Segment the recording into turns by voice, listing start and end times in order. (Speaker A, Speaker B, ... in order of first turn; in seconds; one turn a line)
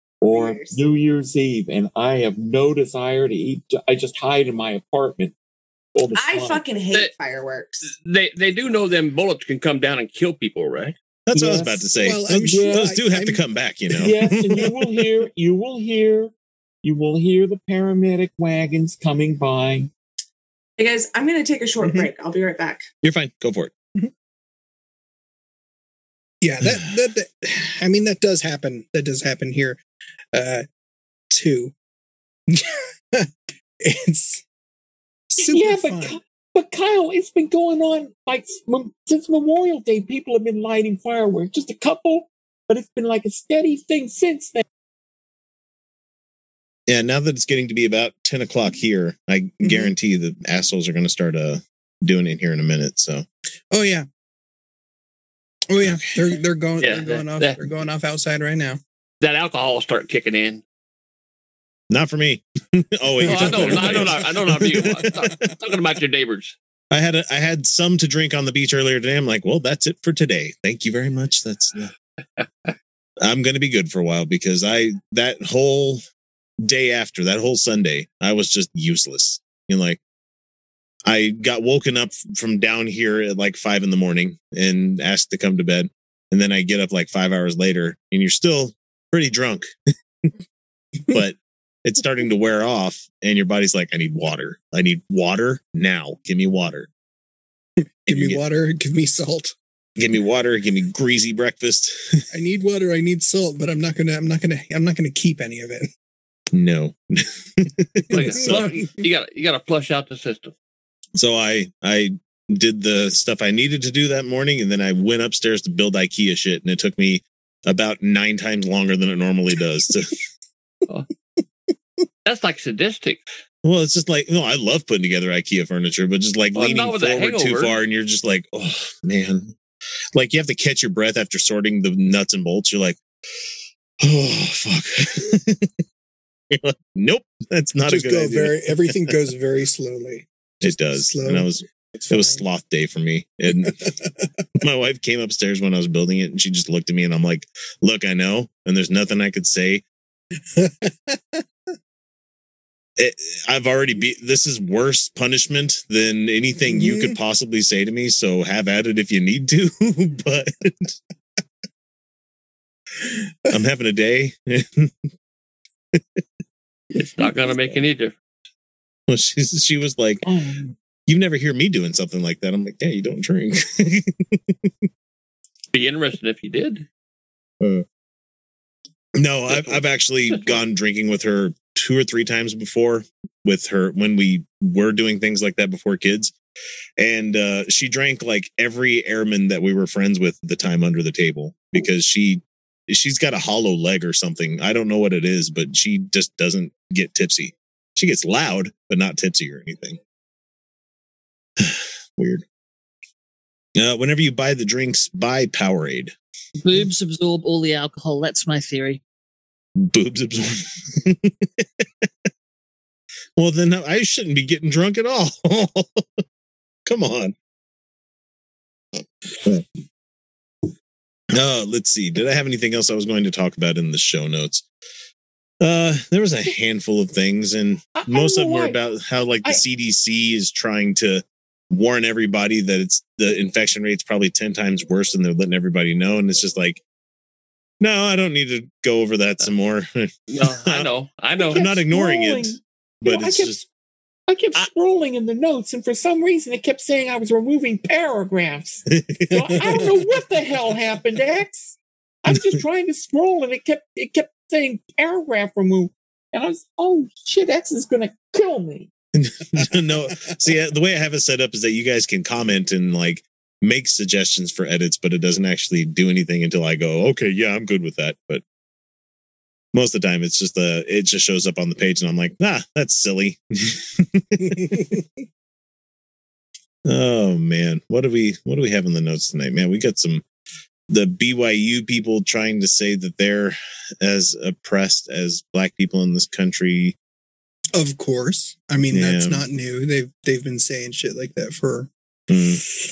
Speaker A: 0.2-5.3
Speaker B: 0.3-0.8
Speaker A: 5.9-6.6
Speaker B: 6.1-7.8
Speaker C: 7.8-10.9
Speaker D: 11.3-14.7
Speaker A: 11.3-11.8
Speaker E: 11.9-13.4
Speaker A: 12.4-12.9
Speaker A: 13.9-16.3
Speaker A: 16.8-19.9
Speaker B: 20.8-22.8
Speaker E: 21.8-22.1
Speaker D: 23.0-23.7
Speaker E: 26.4-29.8
Speaker E: 30.3-30.6
Speaker E: 31.3-31.7
Speaker E: 32.5-34.4
Speaker E: 35.3-36.2
Speaker A: 35.4-44.6
Speaker D: 46.9-53.2
Speaker E: 49.6-49.9
Speaker E: 53.7-54.1
Speaker E: 55.7-58.8
Speaker D: 55.8-56.4
Speaker C: 56.8-57.6
Speaker C: 59.2-60.6
Speaker D: 61.9-65.5
Speaker C: 63.2-66.5
Speaker E: 63.2-64.1
Speaker D: 66.9-71.9
Speaker D: 73.2-76.0
Speaker D: 76.6-80.0
Speaker D: 81.0-89.7
Speaker D: 91.1-96.9
Speaker E: 97.8-99.5
Speaker D: 98.1-98.4
Speaker D: 100.0-102.2
Speaker E: 102.3-105.9
Speaker D: 106.5-108.8
Speaker C: 108.1-110.5
Speaker D: 111.2-120.2
Speaker C: 122.2-123.2
Speaker D: 123.6-129.5
Speaker C: 126.5-127.7
Speaker D: 130.1-133.0
Speaker D: 134.0-135.7
Speaker D: 136.5-139.1
Speaker E: 137.9-142.4
Speaker D: 140.6-143.9
Speaker E: 143.5-144.3
Speaker D: 144.6-149.8
Speaker E: 150.5-151.4
Speaker D: 153.0-160.9
Speaker E: 156.6-157.2
Speaker D: 163.5-164.9
Speaker C: 166.9-168.2
Speaker D: 169.1-170.2
Speaker A: 170.2-170.7
Speaker D: 171.1-174.7
Speaker C: 175.7-176.8
Speaker D: 179.2-186.3
Speaker C: 179.5-180.6
Speaker D: 187.0-200.0
Speaker D: 201.6-202.4
Speaker D: 203.8-206.1
Speaker F: 206.6-209.0
Speaker D: 209.8-212.1
Speaker D: 213.4-216.0
Speaker D: 216.9-217.3
Speaker D: 221.3-224.6
Speaker D: 225.6-236.8
Speaker A: 227.9-228.8
Speaker D: 237.8-240.9
Speaker C: 240.3-241.8
Speaker A: 241.4-243.7
Speaker D: 241.4-243.6
Speaker A: 244.3-258.9
Speaker D: 248.9-250.0
Speaker D: 259.1-268.4
Speaker D: 269.7-275.0
Speaker D: 276.9-280.2
Speaker D: 280.9-286.9
Speaker E: 287.7-291.9
Speaker D: 288.9-289.4
Speaker D: 292.3-292.6